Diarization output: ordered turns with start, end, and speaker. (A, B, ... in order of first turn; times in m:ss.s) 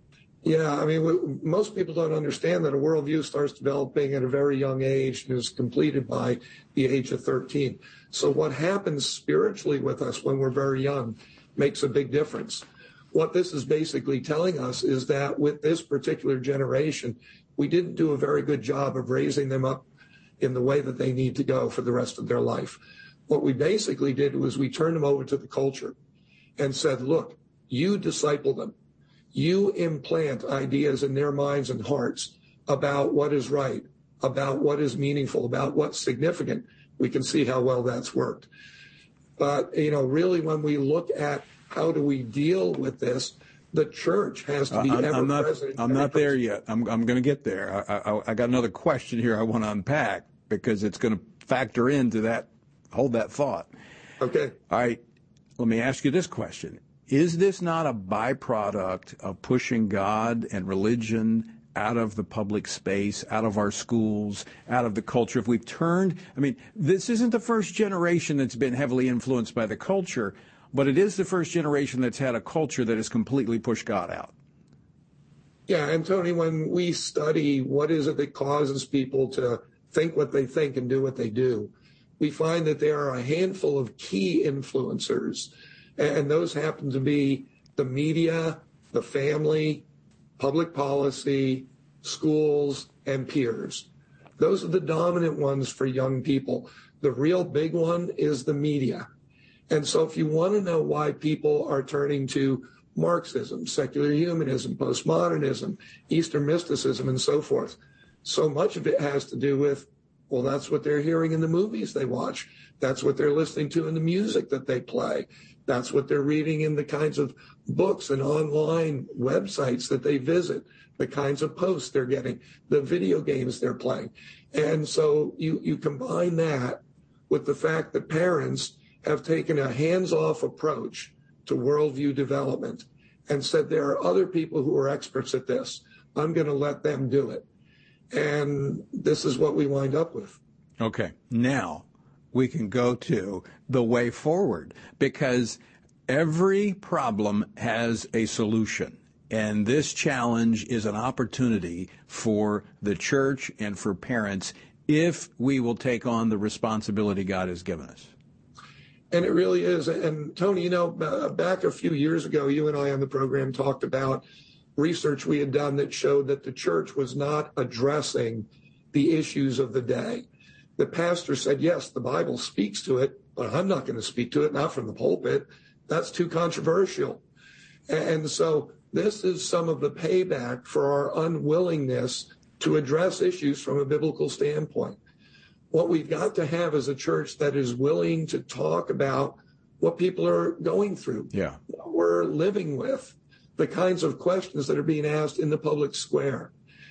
0:00.4-0:19.8 A
0:20.4-0:25.9 A
0:26.6-0:28.7 A
0:29.3-0:38.5 A
0:39.4-0:46.4 A
0:44.7-0:53.7 B
0:54.2-0:54.6 A
0:54.7-0:55.0 B
0:55.6-1:14.3 B
1:15.7-1:29.8 A
1:30.4-1:33.9 A
1:34.4-1:39.1 A
1:39.7-2:17.4 A
2:18.1-2:20.4 A
2:20.8-2:38.1 B
2:39.1-2:44.2 A
2:44.8-2:50.2 A
2:50.8-2:57.2 A
2:57.9-3:05.0 A
3:05.7-3:16.5 A
3:11.3-3:11.6 B